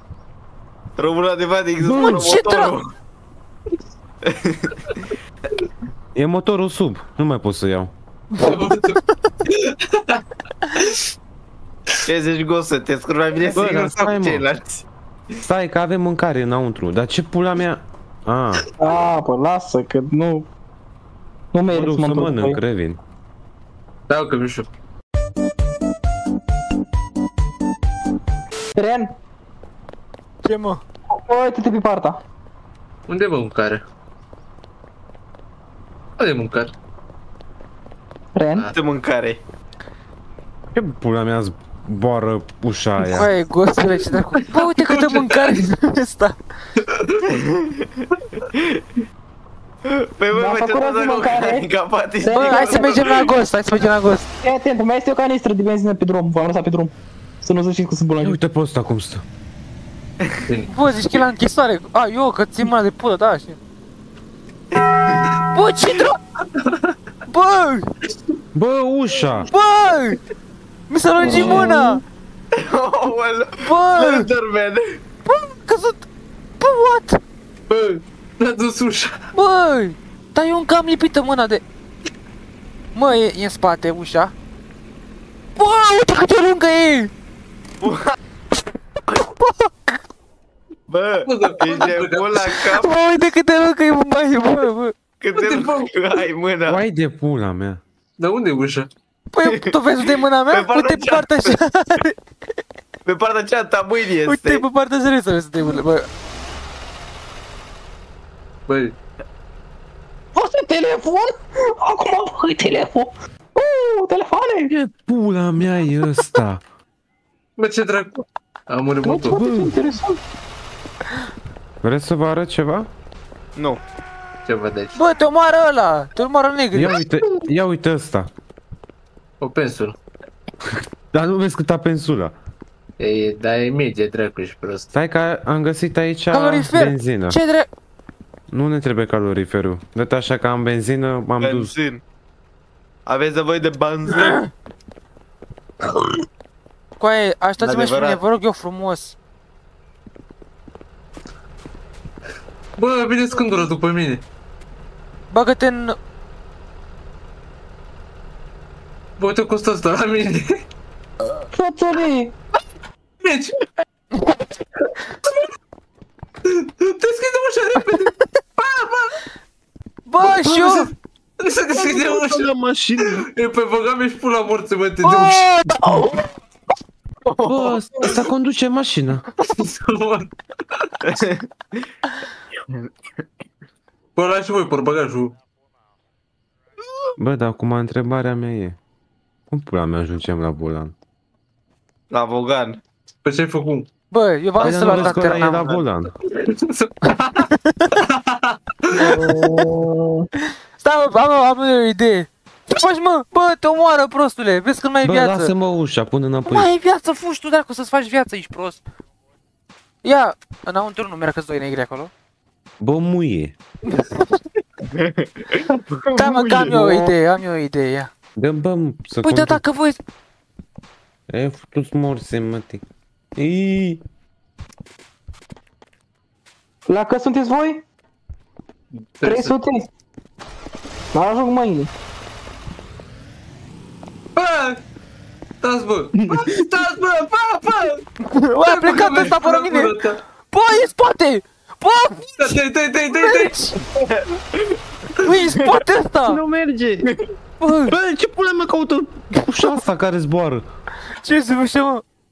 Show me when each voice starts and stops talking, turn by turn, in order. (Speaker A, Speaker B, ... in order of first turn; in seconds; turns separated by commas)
Speaker A: 1.0-2.9, Speaker B: 1.9-2.7, Speaker A: 4.2-5.0, Speaker C: 6.2-7.9, Speaker D: 8.4-10.2, Speaker A: 12.1-14.8, Speaker C: 13.5-14.5, Speaker C: 15.4-18.6, Speaker E: 18.8-20.5, Speaker E: 21.5-22.6, Speaker C: 21.7-23.0, Speaker D: 24.1-24.7, Speaker E: 28.8-29.1, Speaker B: 30.4-30.8, Speaker E: 31.1-32.2, Speaker D: 33.1-33.8, Speaker D: 36.2-36.7, Speaker E: 38.4-38.7, Speaker A: 38.7-39.4, Speaker C: 40.7-43.3, Speaker B: 43.1-46.4, Speaker D: 44.4-45.6, Speaker D: 46.8-47.3, Speaker A: 47.3-47.9, Speaker A: 48.5-48.8, Speaker A: 49.9-53.0, Speaker E: 50.3-51.7, Speaker E: 52.2-53.0, Speaker B: 52.3-54.3, Speaker E: 54.4-58.4, Speaker C: 58.2-59.2, Speaker B: 60.7-63.6, Speaker A: 64.8-65.2, Speaker B: 65.5-66.2, Speaker B: 67.3-67.9, Speaker C: 68.5-69.5, Speaker B: 69.5-70.2, Speaker B: 70.9-72.0, Speaker E: 71.2-72.0, Speaker A: 72.5-75.0, Speaker B: 73.6-74.3, Speaker B: 75.3-76.0, Speaker B: 76.6-77.2, Speaker D: 77.7-79.2, Speaker B: 79.3-81.6, Speaker B: 83.0-84.3, Speaker B: 85.6-87.1, Speaker A: 87.8-88.2, Speaker B: 89.2-89.9, Speaker A: 90.9-92.9, Speaker D: 91.2-92.5, Speaker B: 92.5-94.9, Speaker A: 95.2-96.8, Speaker D: 95.4-95.9, Speaker C: 96.7-97.8, Speaker D: 98.2-98.9, Speaker B: 99.3-102.2, Speaker A: 100.5-101.6, Speaker A: 103.1-104.6, Speaker B: 104.3-106.1, Speaker D: 108.7-109.0, Speaker E: 110.3-114.7, Speaker C: 114.7-116.6, Speaker D: 117.6-119.4, Speaker E: 119.0-120.2, Speaker C: 119.3-119.8, Speaker C: 121.8-122.9, Speaker A: 123.6-123.8, Speaker D: 124.5-125.0, Speaker B: 125.0-127.0, Speaker C: 126.7-128.3, Speaker D: 129.4-130.0, Speaker C: 131.1-132.3, Speaker D: 133.0-134.9, Speaker C: 134.9-137.4, Speaker B: 136.3-137.7, Speaker C: 138.5-141.7, Speaker A: 141.4-142.0, Speaker A: 143.1-144.5, Speaker B: 147.0-149.2, Speaker A: 147.6-148.2, Speaker D: 152.8-154.2, Speaker B: 155.3-155.9, Speaker D: 159.2-160.6, Speaker E: 161.5-162.3, Speaker D: 163.2-163.6, Speaker D: 166.4-169.2, Speaker B: 170.1-170.9, Speaker C: 170.4-170.9, Speaker D: 171.4-172.5, Speaker C: 171.8-173.3, Speaker D: 173.0-175.7, Speaker B: 175.1-176.2, Speaker A: 177.2-178.2, Speaker C: 177.5-179.2, Speaker D: 179.5-180.9, Speaker A: 181.1-181.4, Speaker D: 184.2-185.3, Speaker C: 187.2-188.8, Speaker C: 189.5-190.9, Speaker A: 192.1-192.8, Speaker D: 193.2-193.9, Speaker B: 194.1-195.8, Speaker C: 194.6-196.1, Speaker A: 194.6-195.4, Speaker D: 196.4-199.1, Speaker B: 198.9-199.4, Speaker E: 199.0-200.3, Speaker B: 200.8-205.5, Speaker C: 205.0-206.7, Speaker B: 206.5-208.8, Speaker B: 210.0-212.1, Speaker C: 212.8-213.6, Speaker B: 213.9-214.4, Speaker A: 214.9-216.7, Speaker B: 216.2-218.1, Speaker E: 216.7-217.1, Speaker C: 218.4-219.6, Speaker B: 219.2-220.0, Speaker C: 221.3-222.8, Speaker C: 223.4-224.0, Speaker E: 226.9-227.8, Speaker D: 228.9-229.6, Speaker E: 229.2-229.9, Speaker E: 231.1-231.9, Speaker D: 234.3-234.8, Speaker D: 235.6-238.1, Speaker B: 238.2-240.0, Speaker D: 238.7-240.2, Speaker B: 240.5-243.8, Speaker D: 242.4-243.5, Speaker A: 244.0-245.7, Speaker B: 245.2-246.4, Speaker C: 246.3-247.1, Speaker B: 247.6-247.9, Speaker C: 247.9-250.7, Speaker B: 251.2-252.0